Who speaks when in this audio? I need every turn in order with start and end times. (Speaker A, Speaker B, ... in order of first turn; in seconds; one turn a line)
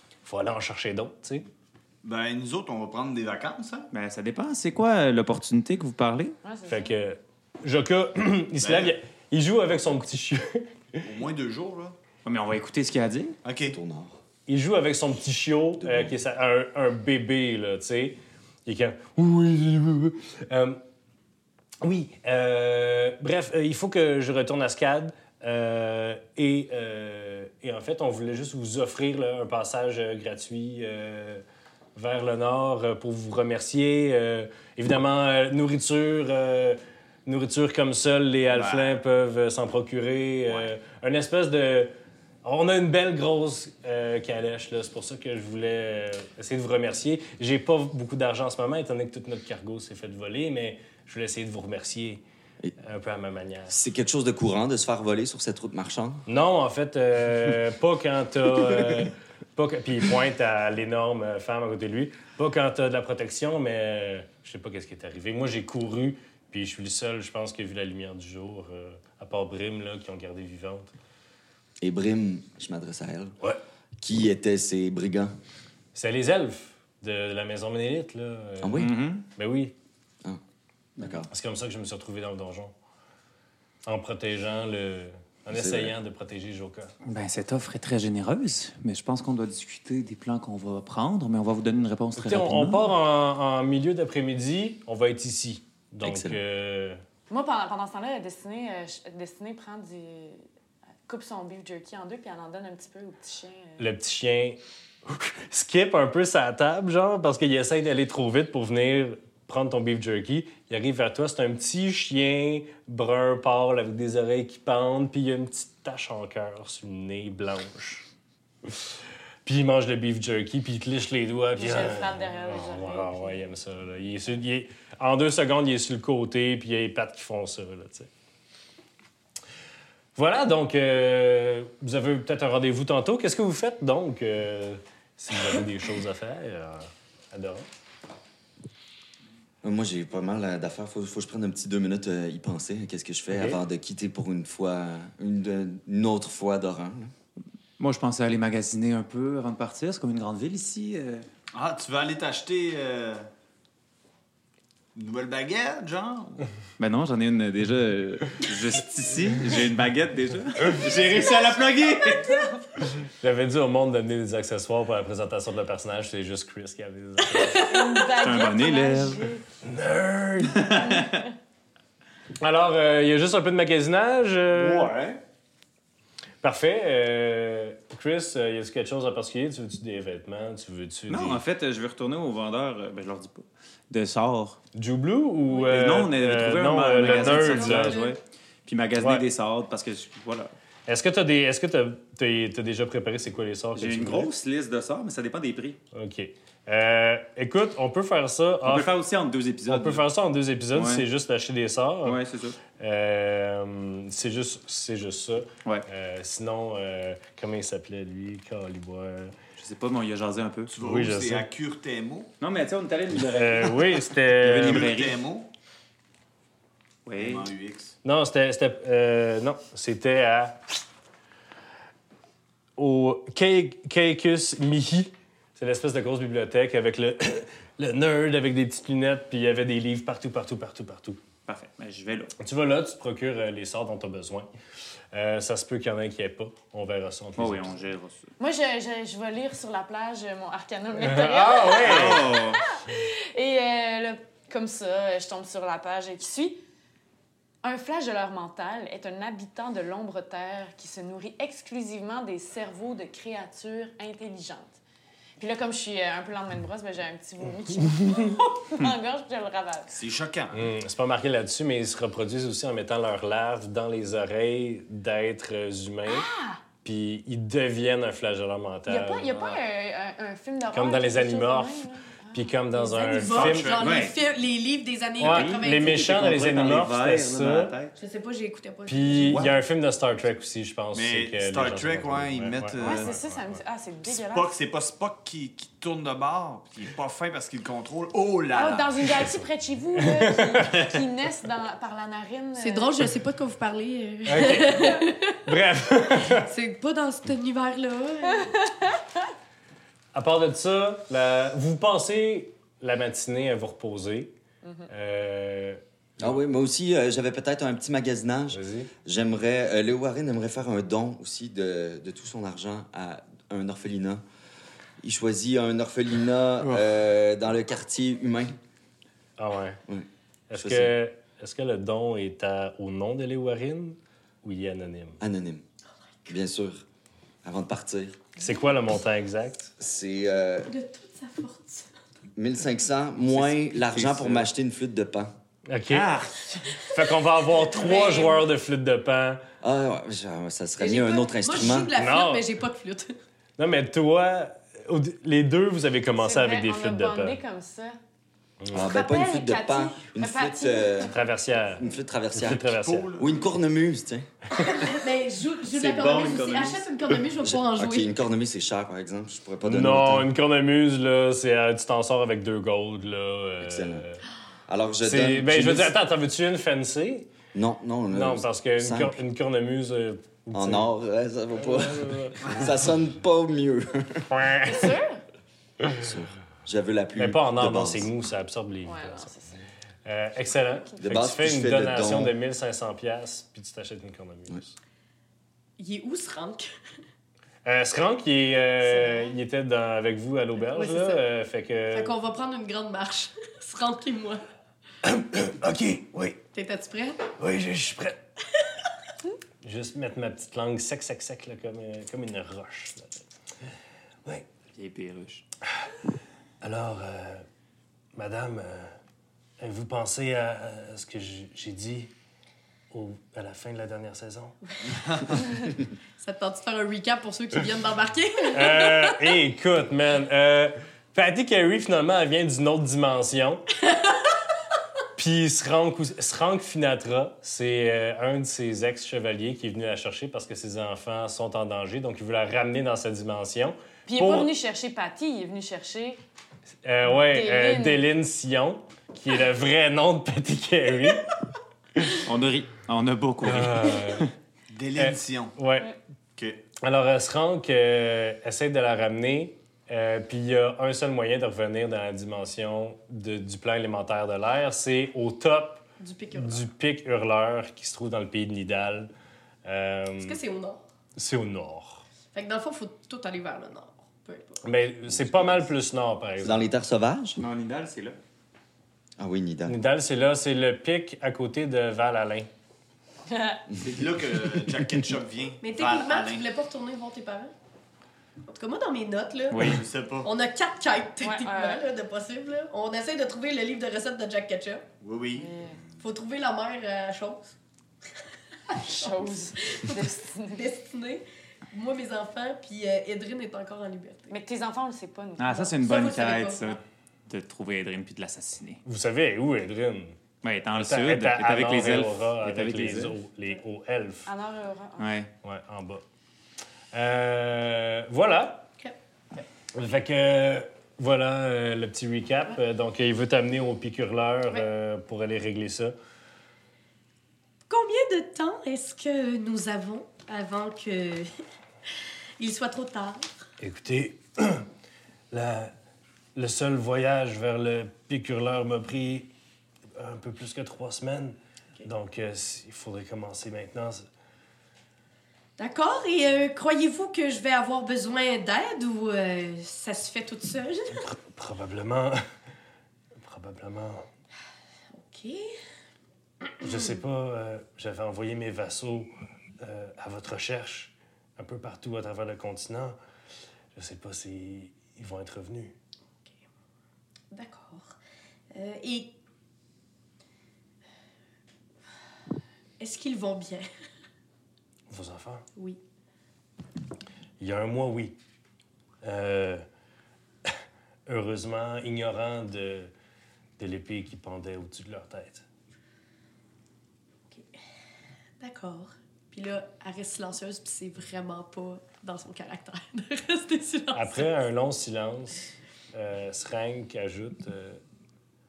Speaker A: 0.2-1.5
Speaker B: 2.0-3.9
Speaker C: 3.9-6.4
Speaker D: 6.4-6.9
Speaker A: 6.7-11.0
Speaker B: 8.6-8.9
Speaker B: 11.0-12.0
Speaker C: 12.2-13.4
Speaker B: 13.4-13.8
Speaker E: 13.7-14.2
Speaker A: 14.5-20.8
Speaker E: 15.8-16.1
Speaker A: 21.8-31.4
Speaker A: 32.0-41.9
Speaker B: 38.5-39.0
Speaker B: 40.5-40.7
Speaker A: 42.4-52.2
Speaker A: 52.8-53.7
Speaker E: 53.7-56.2
Speaker A: 56.3-70.9
Speaker E: 71.8-73.3
Speaker E: 74.0-75.3
Speaker A: 76.0-79.7
Speaker E: 78.6-78.9
Speaker C: 78.8-79.2
Speaker E: 81.0-81.3
Speaker A: 81.3-82.7
Speaker A: 83.9-86.9
Speaker E: 85.5-85.9
Speaker C: 87.1-92.9
Speaker A: 92.2-97.0
Speaker E: 96.0-96.4
Speaker D: 97.3-100.4
Speaker D: 101.1-103.8
Speaker A: 103.8-118.1
Speaker A: 119.5-128.1
Speaker D: 121.6-123.5
Speaker A: 130.2-137.7
Speaker E: 139.6-147.1
Speaker A: 143.3-143.6
Speaker C: 147.8-151.3
Speaker B: 151.5-153.3
Speaker B: 154.9-156.5
Speaker C: 156.8-162.5
Speaker A: 163.2-167.8
Speaker D: 167.5-169.4
Speaker C: 168.2-169.2
Speaker A: 169.6-171.1
Speaker C: 170.6-171.2
Speaker A: 172.4-174.9
Speaker B: 174.5-175.2
Speaker A: 176.4-181.4
Speaker C: 181.1-184.6
Speaker A: 184.8-188.1
Speaker C: 185.5-190.5
Speaker F: 187.0-188.1
Speaker A: 189.0-189.2
Speaker A: 190.9-194.3
Speaker C: 193.8-195.8
Speaker A: 195.9-198.9
Speaker C: 198.7-200.1
Speaker A: 199.7-202.2
Speaker C: 200.7-201.1
Speaker C: 202.1-202.6
Speaker A: 202.7-209.3
Speaker C: 209.6-210.7
Speaker B: 210.7-212.3
Speaker A: 210.8-211.5
Speaker C: 212.4-213.8
Speaker A: 213.2-214.8
Speaker C: 214.4-215.2
Speaker B: 214.6-215.5
Speaker C: 217.1-217.5
Speaker B: 217.2-217.9
Speaker A: 218.0-220.6
Speaker A: 222.8-231.2
Speaker C: 231.5-232.3
Speaker A: 232.4-234.5
Speaker A: 235.1-237.7
Speaker C: 237.4-238.3
Speaker D: 238.4-246.6
Speaker A: 241.0-242.4
Speaker C: 241.8-242.6
Speaker D: 247.6-254.8
Speaker D: 255.4-259.9
Speaker A: 257.9-258.3
Speaker B: 259.9-260.7
Speaker A: 260.5-266.3
Speaker D: 266.1-266.6
Speaker A: 266.8-269.5
Speaker D: 268.9-273.2
Speaker A: 270.7-273.8
Speaker F: 273.0-276.4
Speaker B: 273.2-274.0
Speaker C: 273.7-274.2
Speaker C: 275.2-277.9
Speaker A: 275.2-277.8
Speaker F: 278.0-279.4
Speaker A: 278.9-283.6
Speaker B: 279.2-279.6
Speaker B: 280.9-283.2
Speaker D: 282.8-284.5
Speaker B: 284.1-289.3
Speaker D: 288.5-292.9
Speaker A: 290.0-290.8
Speaker F: 292.6-295.4
Speaker A: 294.3-296.5
Speaker F: 296.2-298.6
Speaker D: 298.5-298.9
Speaker A: 300.1-304.3
Speaker D: 304.6-304.9
Speaker A: 304.9-306.4
Speaker E: 306.2-314.2
Speaker A: 308.5-308.9
Speaker E: 315.0-318.6
Speaker A: 319.4-319.8
Speaker E: 319.9-320.9
Speaker A: 320.5-325.2
Speaker E: 325.2-325.6
Speaker E: 326.3-326.8
Speaker E: 327.4-328.2
Speaker A: 328.4-329.7
Speaker E: 329.8-330.7
Speaker F: 330.7-331.9
Speaker E: 332.4-335.3
Speaker B: 333.3-334.4
Speaker A: 335.7-339.4
Speaker F: 337.8-338.4
Speaker E: 339.6-341.9
Speaker F: 340.8-343.1
Speaker A: 341.9-342.5
Speaker A: 343.6-347.4
Speaker D: 346.2-348.0
Speaker A: 348.6-349.0
Speaker E: 348.7-351.1
Speaker D: 348.8-351.8
Speaker A: 351.1-353.1
Speaker E: 351.8-354.3
Speaker B: 352.5-353.5
Speaker F: 354.7-358.1
Speaker C: 355.7-356.9
Speaker E: 357.4-360.3
Speaker A: 359.6-364.2
Speaker E: 363.6-364.1
Speaker E: 364.7-366.0
Speaker A: 365.0-367.3
Speaker E: 367.5-369.2
Speaker A: 368.1-370.9
Speaker E: 370.5-374.3
Speaker A: 371.6-372.6
Speaker A: 374.3-375.0
Speaker D: 374.6-375.2
Speaker E: 375.9-378.1
Speaker A: 377.2-379.3
Speaker D: 378.8-379.6
Speaker A: 380.1-384.8
Speaker E: 381.0-382.3
Speaker F: 385.8-386.7
Speaker A: 387.6-392.2
Speaker F: 390.7-391.2
Speaker F: 391.9-394.4
Speaker A: 395.0-396.4
Speaker F: 396.5-397.3
Speaker A: 397.4-398.2
Speaker A: 399.6-403.1
Speaker C: 404.8-405.4
Speaker A: 406.6-407.5
Speaker A: 408.1-408.9
Speaker A: 409.6-412.1
Speaker A: 412.9-414.6
Speaker F: 416.2-419.2
Speaker A: 418.5-423.6
Speaker A: 425.2-434.5
Speaker D: 434.1-436.2
Speaker A: 436.8-441.4
Speaker D: 437.1-438.1
Speaker A: 442.0-442.2
Speaker C: 442.2-444.3
Speaker A: 443.4-444.3
Speaker B: 444.7-445.6
Speaker A: 445.0-445.9
Speaker B: 446.4-446.6
Speaker A: 446.8-459.1
Speaker F: 456.0-456.7
Speaker A: 459.6-460.4
Speaker F: 460.2-460.8
Speaker A: 461.2-462.0
Speaker F: 462.3-464.7
Speaker A: 464.6-466.6
Speaker E: 465.3-465.6
Speaker E: 466.4-467.4
Speaker C: 467.4-468.2
Speaker E: 469.2-469.8
Speaker A: 469.7-472.5
Speaker D: 473.3-473.6
Speaker B: 473.8-476.5
Speaker F: 475.6-477.5
Speaker F: 478.5-484.9
Speaker C: 479.5-479.8
Speaker B: 479.6-480.3
Speaker D: 481.2-481.8
Speaker B: 485.0-485.5
Speaker D: 485.4-485.8
Speaker F: 486.0-487.6
Speaker D: 488.7-490.6
Speaker F: 488.9-494.3
Speaker D: 494.3-495.8
Speaker C: 495.4-498.8
Speaker F: 495.8-496.6
Speaker A: 498.9-500.2
Speaker C: 500.4-503.2
Speaker A: 500.8-504.3
Speaker D: 504.3-505.1
Speaker C: 505.0-505.3
Speaker A: 505.4-506.0
Speaker A: 506.9-508.7
Speaker A: 509.7-515.9
Speaker F: 517.7-521.3
Speaker F: 522.4-523.3
Speaker A: 523.6-524.7
Speaker A: 525.3-525.7
Speaker A: 526.4-529.3
Speaker A: 530.0-534.1
Speaker F: 535.6-541.0
Speaker A: 541.0-542.2
Speaker A: 543.2-544.1
Speaker F: 544.9-545.5
Speaker A: 546.6-553.0
Speaker A: 553.8-555.8
Speaker F: 557.3-558.0
Speaker F: 558.5-559.2
Speaker F: 562.8-563.7
Speaker A: 564.9-565.5
Speaker A: 567.4-568.2
Speaker A: 569.0-569.6
Speaker A: 571.1-572.9
Speaker A: 573.6-575.5
Speaker F: 577.3-577.6
Speaker F: 578.4-584.3
Speaker A: 583.9-587.8